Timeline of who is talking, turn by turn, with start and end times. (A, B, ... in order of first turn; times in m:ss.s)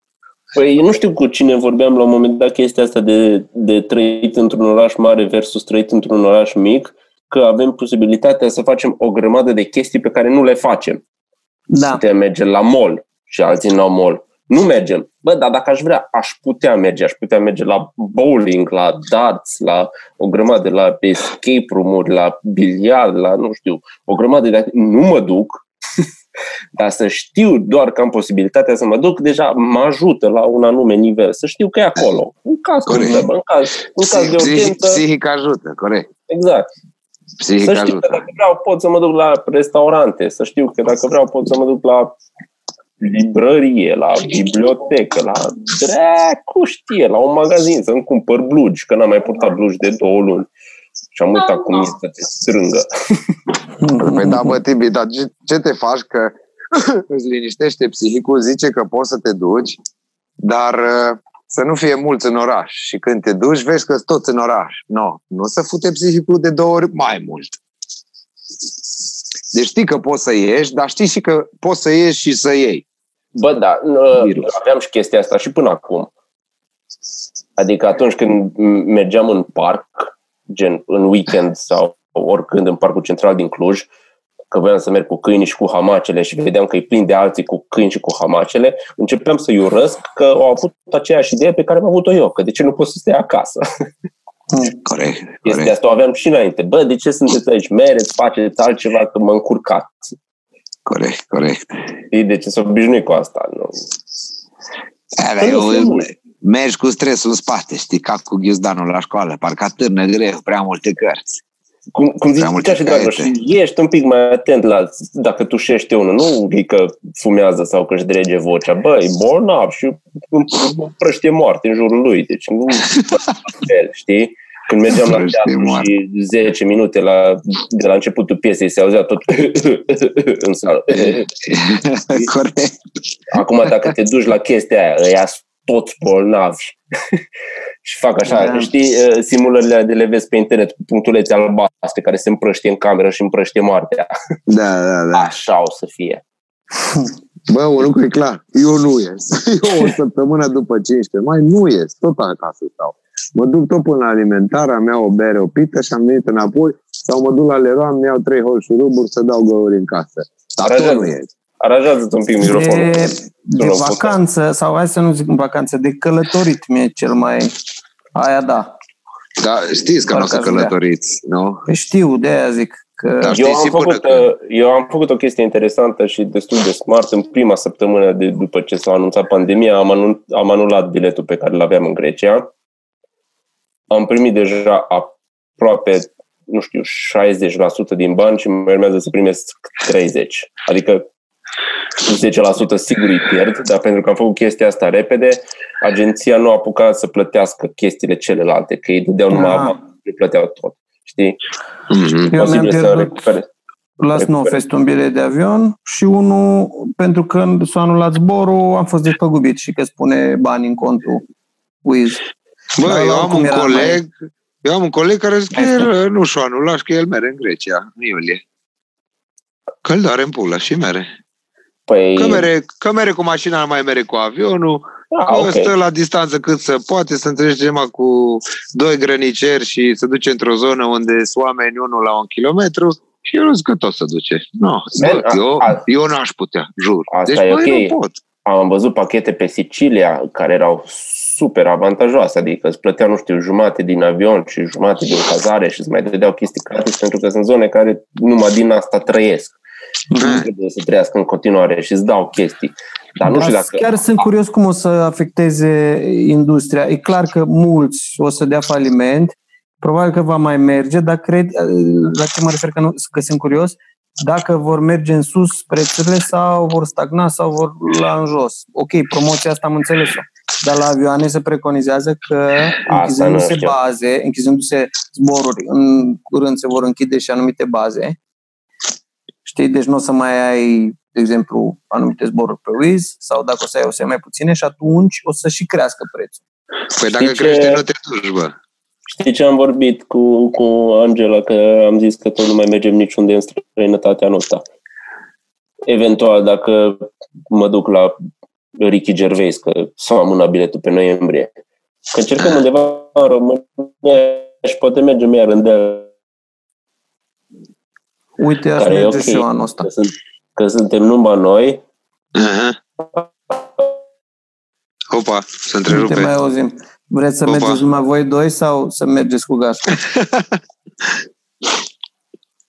0:00.6-0:11.0 A
0:11.7-0:12.0 B
0:11.9-0:25.6 A
0:26.8-0:35.0 A
0:32.9-0:33.3 C
0:34.1-0:36.1 C
0:36.3-0:36.7 A
0:37.4-0:38.2 C
0:37.6-0:42.1 A
0:43.0-0:50.5 A
0:51.1-0:53.2 A
0:53.8-0:54.6 B
0:54.0-0:59.8 C
1:00.4-1:07.6 C
1:09.5-1:12.8 C
1:13.4-1:16.1 A
1:14.1-1:14.5 C
1:17.6-1:23.9 A
1:24.5-1:33.6 A
1:34.8-1:35.7 C
1:35.4-1:40.2 A
1:40.9-1:41.9 C
1:42.1-1:43.8 A
1:45.2-1:51.4 C
1:45.4-1:46.1 A
1:51.9-2:11.5 A
1:52.4-1:53.3 C
2:04.9-2:05.9 C
2:11.0-2:12.8 C
2:13.3-2:17.2 A
2:17.8-2:24.1 A
2:18.3-2:18.7 B
2:24.5-2:25.4 C
2:25.1-2:26.2 A
2:27.5-2:41.3 C
2:40.6-2:44.2 A
2:42.4-2:47.5 B
2:48.2-2:48.7 B
2:49.4-2:51.6 C
2:50.1-2:50.7 B
2:51.7-2:53.4 B
2:53.2-2:54.2 C
2:53.3-3:02.5 A
3:03.9-3:11.0 A
3:12.0-3:21.4 A
3:19.3-3:19.8 B
3:21.9-3:23.5 A
3:22.3-3:23.3 B
3:24.0-3:31.2 B
3:24.2-3:24.6 A
3:31.8-3:32.2 B
3:32.8-3:34.1 C
3:32.8-3:34.0 B
3:34.6-3:38.4 C
3:35.6-3:35.9 B
3:39.8-3:41.1 C
3:41.9-3:42.5 A
3:42.2-3:58.2 C
3:45.1-3:45.7 A
3:55.0-3:55.8 A
3:57.1-4:09.6 A
4:10.1-4:10.4 B
4:10.2-4:10.5 C
4:10.2-4:14.0 A
4:13.2-4:38.2 B
4:32.9-4:33.8 A
4:39.4-4:46.4 B
4:47.0-4:48.5 C
4:47.1-4:47.8 A
4:49.1-4:54.7 A
4:55.9-4:58.2 A
4:58.8-5:01.5 A
5:02.1-5:06.1 A
5:02.4-5:02.7 C
5:08.4-5:09.9 B
5:08.8-5:11.8 A
5:12.4-5:12.8 C
5:13.2-5:13.9 A
5:15.1-5:16.3 C
5:15.9-5:20.0 B
5:17.4-5:17.8 C
5:20.0-5:20.6 C